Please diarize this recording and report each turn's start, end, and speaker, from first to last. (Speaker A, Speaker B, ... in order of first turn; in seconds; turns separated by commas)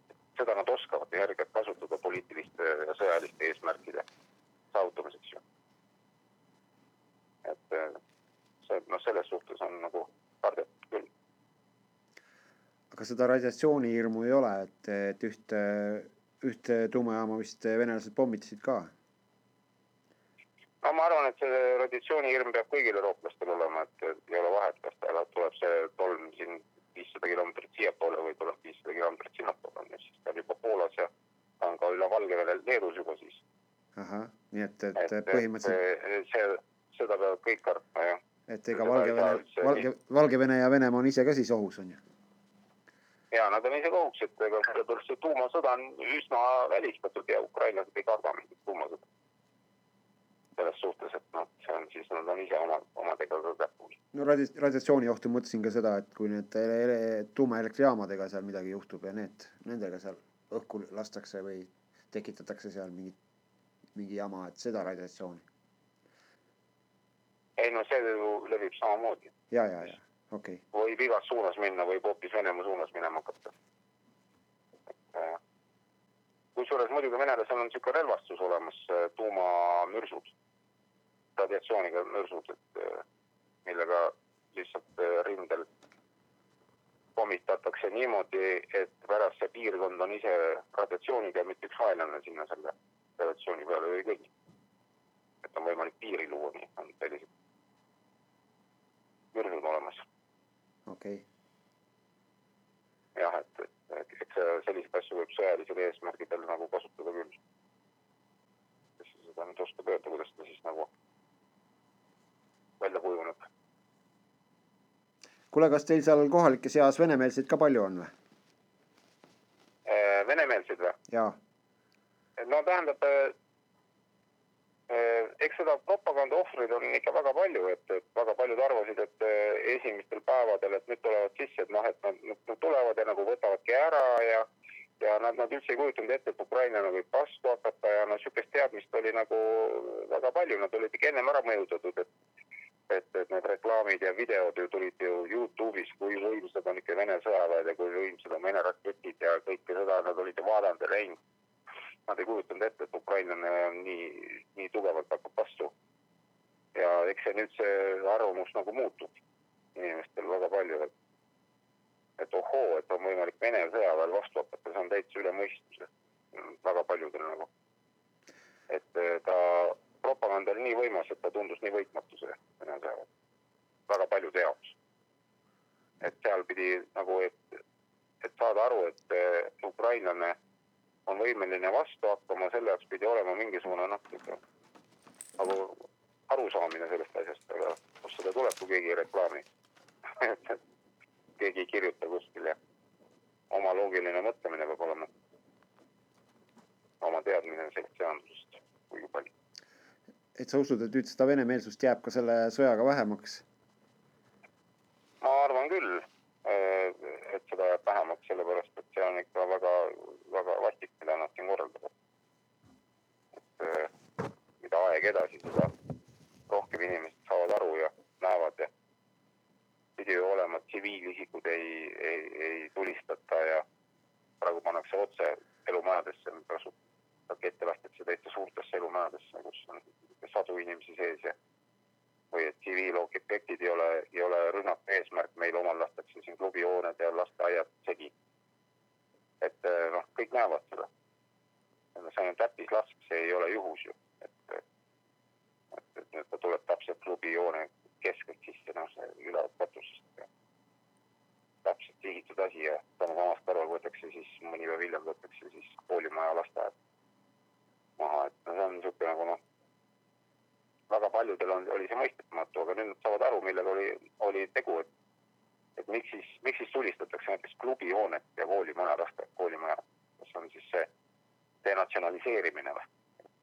Speaker A: 0.3-4.0, Speaker A: 4.7-5.4, Speaker A: 7.4-8.0, Speaker A: 8.6-11.1, Speaker B: 12.9-18.9, Speaker A: 20.8-33.4, Speaker B: 34.0-35.8, Speaker A: 35.0-38.2, Speaker B: 38.5-42.0, Speaker A: 38.7-39.9, Speaker A: 43.3-49.0, Speaker A: 50.5-54.0, Speaker B: 54.1-63.2, Speaker B: 63.9-65.4, Speaker A: 67.6-69.3, Speaker B: 69.5-70.6, Speaker A: 70.7-73.5, Speaker A: 75.1-75.4, Speaker A: 76.5-80.3, Speaker A: 81.3-83.0, Speaker A: 83.6-85.7, Speaker A: 87.2-94.3, Speaker A: 95.4-97.3, Speaker A: 99.3-100.0, Speaker B: 100.9-101.2, Speaker A: 103.2-107.4, Speaker A: 109.0-110.9, Speaker A: 112.8-113.4, Speaker B: 115.5-118.1, Speaker A: 119.8-121.0, Speaker B: 121.1-121.4, Speaker A: 122.4-123.3, Speaker A: 124.9-134.5, Speaker A: 135.0-142.1, Speaker A: 142.9-151.2, Speaker A: 152.1-155.7, Speaker A: 156.7-159.1, Speaker A: 159.7-160.9, Speaker A: 162.2-167.5, Speaker A: 168.7-173.1, Speaker A: 173.9-174.8, Speaker A: 176.0-177.6, Speaker A: 178.2-180.4, Speaker A: 181.1-184.4, Speaker A: 185.4-189.4, Speaker A: 190.1-190.6, Speaker A: 191.4-192.6, Speaker A: 193.5-195.1, Speaker A: 197.0-199.3, Speaker B: 200.3-203.4, Speaker A: 205.2-211.9, Speaker A: 213.5-213.9, Speaker A: 214.6-215.7, Speaker A: 216.5-218.7, Speaker A: 220.0-223.6, Speaker A: 224.4-226.7, Speaker A: 227.3-231.3, Speaker A: 232.3-238.1, Speaker A: 239.4-240.9, Speaker A: 241.9-244.6, Speaker A: 245.7-250.3, Speaker A: 251.6-256.7, Speaker A: 258.0-259.4, Speaker A: 260.9-264.9, Speaker A: 265.8-270.9, Speaker A: 271.6-272.9